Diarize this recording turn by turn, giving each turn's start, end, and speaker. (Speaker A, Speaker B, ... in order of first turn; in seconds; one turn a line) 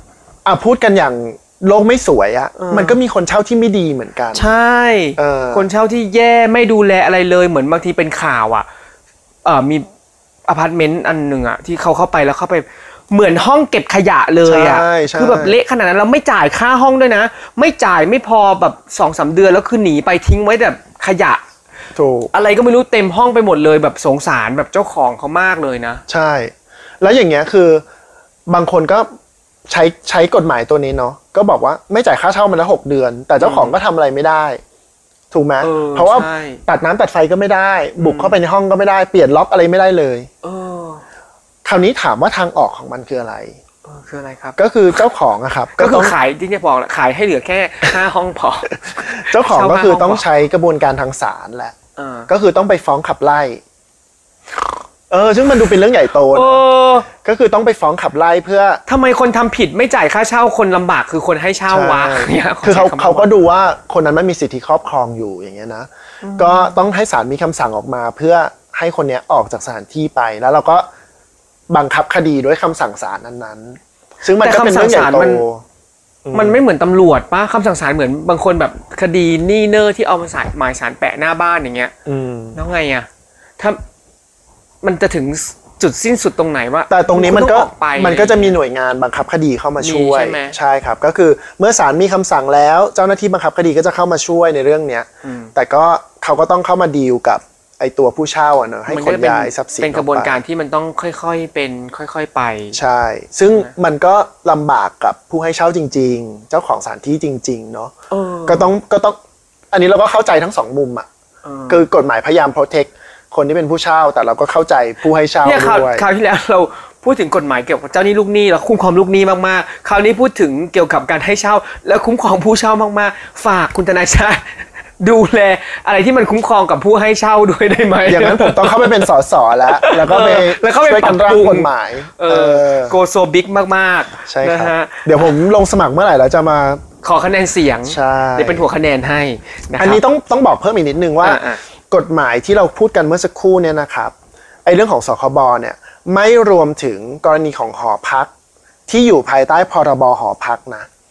Speaker A: 0.5-4.5
Speaker B: 2.6-3.0
Speaker B: 4.3-8.7
Speaker A: 5.2-5.7
Speaker B: 9.4-9.9
Speaker B: 10.5-21.4
Speaker A: 14.4-15.6
Speaker A: 22.0-22.3
Speaker B: 22.3-26.0
Speaker A: 26.1-27.8
Speaker A: 28.5-29.1
Speaker A: 29.7-34.6
Speaker B: 33.4-33.8
Speaker A: 35.3-40.3
Speaker B: 35.6-36.6
Speaker B: 38.0-38.4
Speaker B: 40.4-41.0
Speaker A: 41.6-43.6
Speaker B: 43.9-44.6
Speaker A: 44.6-46.2
Speaker B: 45.8-50.3
Speaker A: 49.1-51.8
Speaker B: 52.0-52.3
Speaker A: 52.3-53.6
Speaker A: 55.1-58.8
Speaker B: 56.2-57.1
Speaker B: 58.9-63.3
Speaker A: 61.7-70.9
Speaker B: 66.2-66.8
Speaker A: 71.7-75.6
Speaker B: 74.3-75.5
Speaker A: 76.2-76.6
Speaker B: 76.3-81.9
Speaker A: 82.1-82.6
Speaker B: 82.5-83.1
Speaker B: 84.8-88.6
Speaker A: 86.9-100.4
Speaker B: 89.8-90.6
Speaker B: 95.2-95.5
Speaker B: 98.9-102.8
Speaker A: 102.7-107.9
Speaker B: 108.1-108.7
Speaker A: 108.5-109.2
Speaker A: 109.7-111.1
Speaker B: 111.5-111.9
Speaker A: 111.7-116.1
Speaker B: 115.4-129.1
Speaker A: 128.1-133.0
Speaker B: 129.7-135.5
Speaker A: 134.3-136.8
Speaker B: 137.0-140.0
Speaker A: 137.8-138.7
Speaker A: 139.8-144.1
Speaker B: 141.2-141.6
Speaker A: 144.7-148.3
Speaker A: 148.9-150.9